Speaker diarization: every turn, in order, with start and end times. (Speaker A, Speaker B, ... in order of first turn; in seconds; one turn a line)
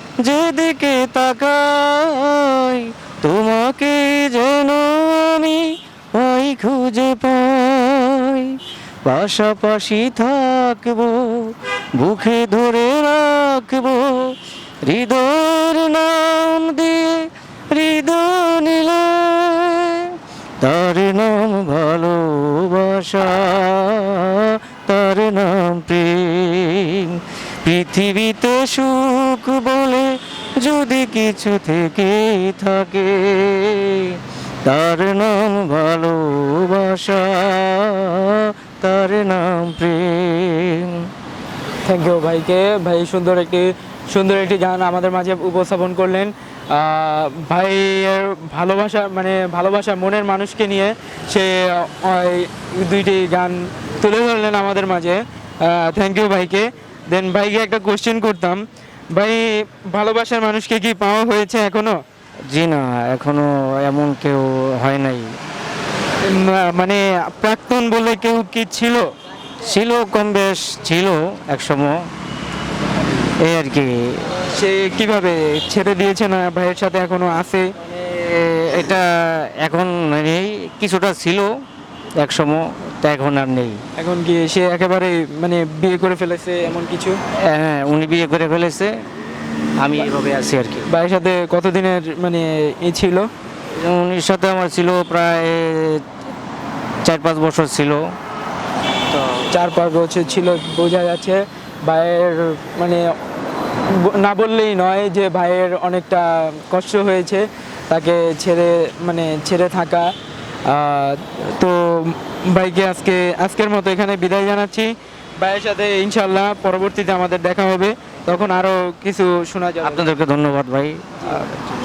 Speaker A: 0.2-41.0
Speaker B: 41.9-58.6
Speaker B: 59.1-62.0
Speaker A: 62.5-65.3
Speaker B: 66.2-69.1
Speaker A: 69.6-72.0
Speaker A: 73.4-74.4
Speaker B: 74.5-77.7
Speaker A: 77.9-81.5
Speaker A: 82.2-83.8
Speaker B: 84.0-87.2
Speaker A: 87.5-88.9
Speaker A: 89.8-90.9
Speaker B: 90.9-93.3
Speaker A: 93.8-96.0
Speaker A: 97.0-98.0
Speaker A: 99.1-99.4
Speaker B: 99.5-103.1
Speaker B: 103.9-110.1
Speaker B: 110.7-120.1
Speaker A: 119.8-121.7